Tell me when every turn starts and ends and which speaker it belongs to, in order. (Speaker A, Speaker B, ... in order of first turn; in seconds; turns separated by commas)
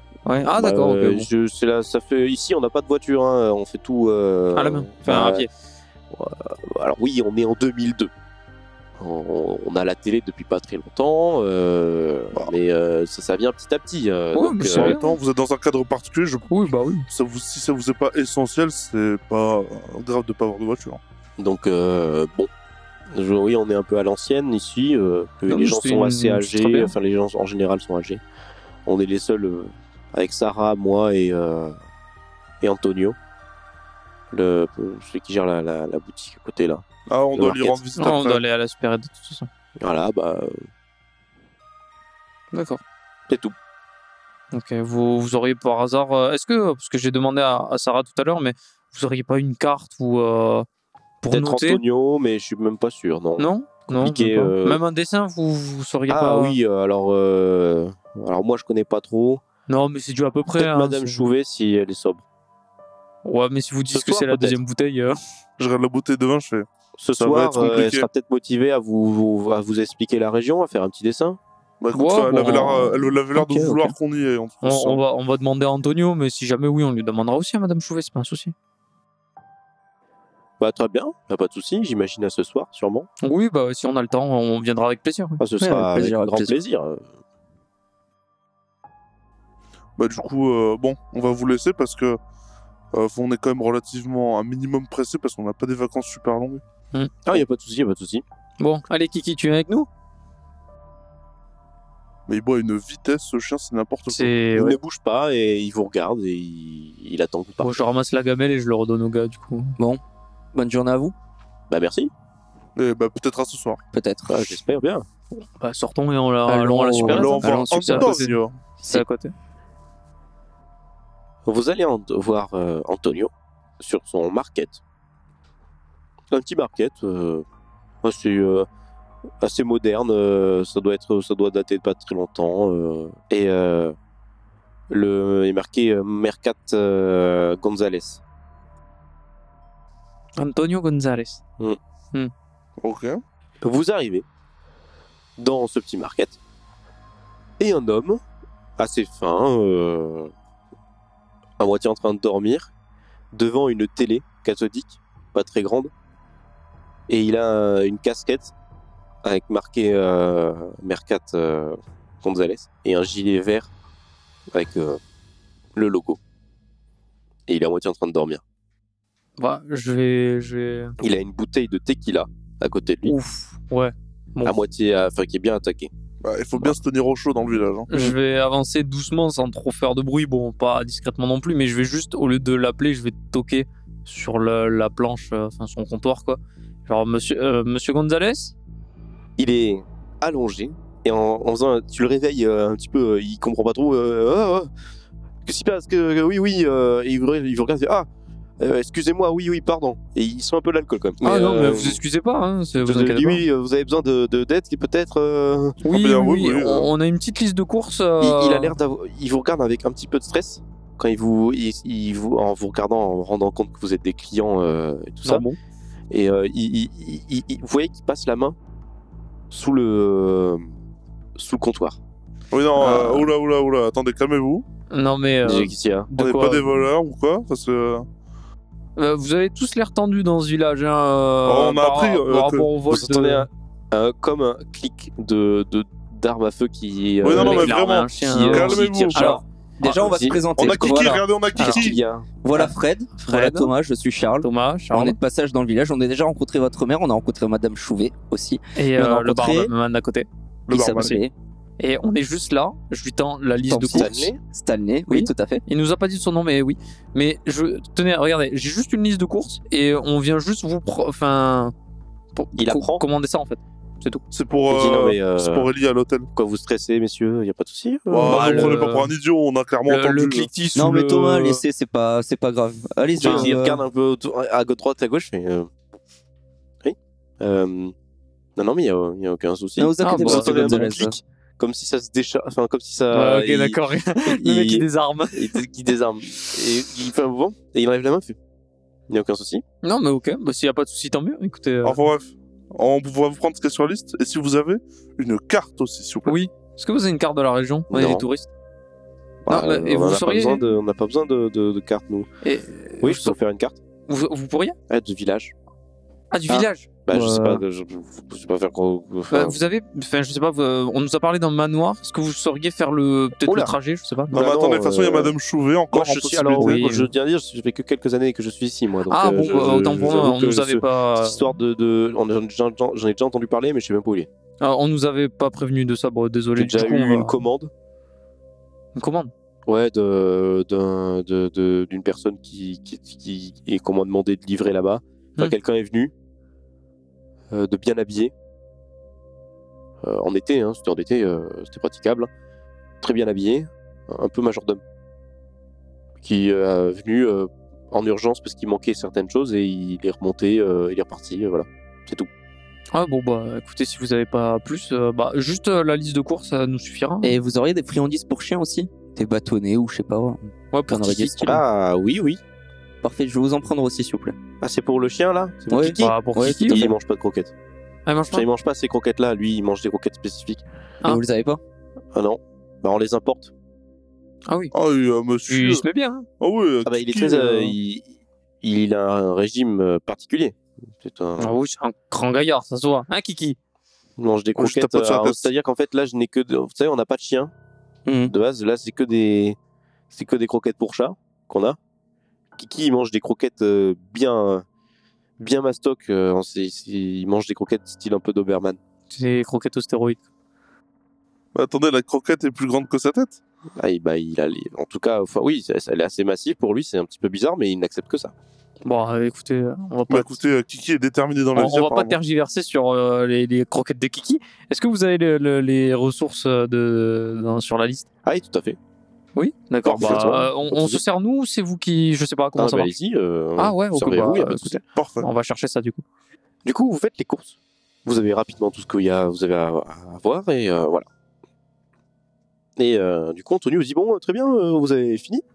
Speaker A: 0.2-1.3, Speaker B: 0.5-5.5, Speaker A: 4.5-5.5, Speaker B: 6.1-8.1, Speaker B: 9.0-14.9, Speaker A: 14.3-15.1, Speaker C: 14.6-16.5, Speaker A: 16.5-17.1, Speaker C: 17.1-21.0, Speaker B: 21.4-22.5, Speaker B: 23.1-28.2, Speaker A: 25.5-26.9, Speaker B: 28.9-31.8, Speaker B: 32.6-33.2, Speaker B: 34.3-37.8, Speaker C: 37.1-38.4, Speaker A: 38.0-39.5, Speaker B: 39.8-40.6, Speaker A: 42.5-42.8, Speaker B: 43.3-43.5, Speaker A: 44.5-50.7, Speaker A: 51.2-51.8, Speaker B: 51.3-54.8, Speaker A: 53.4-56.6, Speaker B: 56.1-59.4, Speaker A: 59.7-61.3, Speaker B: 60.5-62.2, Speaker A: 63.2-65.2, Speaker B: 63.9-64.6, Speaker C: 65.6-68.1, Speaker B: 67.0-71.4, Speaker C: 71.8-75.0, Speaker A: 71.9-73.9, Speaker B: 73.3-73.8, Speaker A: 74.6-78.5, Speaker B: 80.6-83.1, Speaker A: 83.2-85.4, Speaker B: 85.4-87.0, Speaker D: 85.6-86.5, Speaker C: 90.0-92.2, Speaker C: 92.9-96.6, Speaker B: 97.2-98.2, Speaker A: 98.6-99.9, Speaker C: 102.3-104.3, Speaker A: 104.1-104.8, Speaker B: 104.5-107.8, Speaker A: 107.6-109.8, Speaker D: 110.5-111.1, Speaker B: 111.7-112.1, Speaker C: 112.8-113.8, Speaker D: 113.9-114.5, Speaker B: 114.3-115.0, Speaker A: 115.3-119.3, Speaker D: 116.5-118.1, Speaker C: 117.0-118.6, Speaker B: 121.4-124.8, Speaker B: 126.3-127.4, Speaker B: 128.0-128.7, Speaker B: 129.4-133.9, Speaker B: 134.9-138.2, Speaker A: 140.4-141.4, Speaker C: 142.8-143.2, Speaker B: 143.6-144.2, Speaker B: 145.4-146.4, Speaker B: 147.6-148.2, Speaker B: 148.8-150.3, Speaker B: 151.6-152.7, Speaker B: 153.3-155.9, Speaker B: 157.1-158.5, Speaker B: 159.2-163.7, Speaker B: 164.5-165.0, Speaker B: 165.7-166.2, Speaker B: 167.5-168.4, Speaker A: 169.4-170.9, Speaker B: 171.0-173.1, Speaker A: 173.0-174.6, Speaker B: 174.4-175.9, Speaker C: 176.2-177.9, Speaker A: 177.9-188.5, Speaker B: 189.4-194.7, Speaker B: 195.4-198.1, Speaker B: 198.6-202.0, Speaker A: 201.2-203.4, Speaker B: 202.8-205.8, Speaker A: 205.8-208.7, Speaker C: 205.9-206.9, Speaker B: 208.2-215.4, Speaker A: 215.2-215.6, Speaker B: 216.1-218.6, Speaker B: 219.5-220.6, Speaker B: 221.3-222.0, Speaker C: 222.5-224.6, Speaker A: 222.8-223.3, Speaker A: 224.9-226.7, Speaker B: 225.4-226.1, Speaker C: 226.2-228.1, Speaker A: 228.9-233.5, Speaker C: 231.4-232.7, Speaker B: 232.9-239.0, Speaker C: 237.2-239.4, Speaker A: 237.3-239.4, Speaker D: 239.0-241.2, Speaker B: 239.8-240.4, Speaker C: 240.5-242.0, Speaker A: 241.6-241.9, Speaker B: 241.6-242.3, Speaker D: 242.4-249.7, Speaker A: 242.5-243.7, Speaker A: 244.4-245.2, Speaker A: 248.8-251.2, Speaker D: 250.7-251.3, Speaker C: 250.7-251.1, Speaker A: 251.8-254.1, Speaker D: 253.7-255.6, Speaker B: 253.9-254.4, Speaker A: 255.1-261.7, Speaker A: 262.3-264.2, Speaker B: 262.6-263.0, Speaker C: 264.3-266.3, Speaker B: 264.7-265.7, Speaker B: 266.3-268.8, Speaker C: 268.1-270.5, Speaker A: 268.2-269.1, Speaker A: 269.9-271.6, Speaker D: 270.7-273.8, Speaker B: 273.2-275.7, Speaker A: 273.2-273.5, Speaker B: 276.8-277.9, Speaker B: 278.6-288.4, Speaker D: 279.8-281.2, Speaker A: 280.0-281.1, Speaker A: 283.1-285.6, Speaker B: 289.1-289.6, Speaker A: 289.8-292.0, Speaker C: 291.8-296.4, Speaker A: 296.3-298.5, Speaker B: 297.9-298.2, Speaker B: 299.4-302.3, Speaker A: 299.5-300.6, Speaker A: 302.4-303.4, Speaker B: 303.0-303.8, Speaker A: 304.1-304.8, Speaker B: 304.9-305.5, Speaker A: 306.3-307.6, Speaker B: 306.5-309.6, Speaker A: 309.3-314.4, Speaker B: 313.4-313.8, Speaker B: 314.3-315.3, Speaker C: 314.3-316.8, Speaker B: 315.9-324.3, Speaker A: 316.6-317.1, Speaker A: 319.1-321.5, Speaker C: 319.4-320.1, Speaker A: 324.6-327.4, Speaker B: 326.6-327.7, Speaker A: 328.9-329.3, Speaker B: 329.6-336.1, Speaker B: 337.5-338.3, Speaker B: 340.0-342.3, Speaker B: 343.0-344.8, Speaker B: 346.2-352.3, Speaker A: 352.9-357.3, Speaker D: 357.2-361.6, Speaker A: 360.7-361.4, Speaker B: 361.2-362.4, Speaker D: 363.0-364.4, Speaker B: 364.6-367.5, Speaker D: 365.7-366.9, Speaker A: 365.9-366.8, Speaker A: 368.1-368.4, Speaker B: 368.3-370.6, Speaker D: 371.0-371.6, Speaker B: 372.1-373.5, Speaker A: 374.5-374.7, Speaker C: 374.7-375.8, Speaker A: 375.5-376.3, Speaker C: 376.4-377.7, Speaker B: 376.8-378.1, Speaker B: 378.6-381.5, Speaker A: 381.4-383.6, Speaker B: 384.2-387.5, Speaker C: 384.6-385.5, Speaker D: 388.1-388.3, Speaker B: 388.2-389.6, Speaker B: 390.1-391.8, Speaker B: 392.6-394.6, Speaker B: 395.4-398.8, Speaker A: 399.1-400.2, Speaker C: 401.5-403.4, Speaker B: 403.8-408.3, Speaker A: 408.8-410.4, Speaker C: 410.1-412.2, Speaker A: 411.5-418.1, Speaker B: 418.2-418.8, Speaker A: 419.3-422.9, Speaker B: 419.8-421.0, Speaker B: 422.6-424.8, Speaker A: 423.6-426.0, Speaker C: 424.9-425.3, Speaker B: 426.6-431.1, Speaker B: 432.8-435.4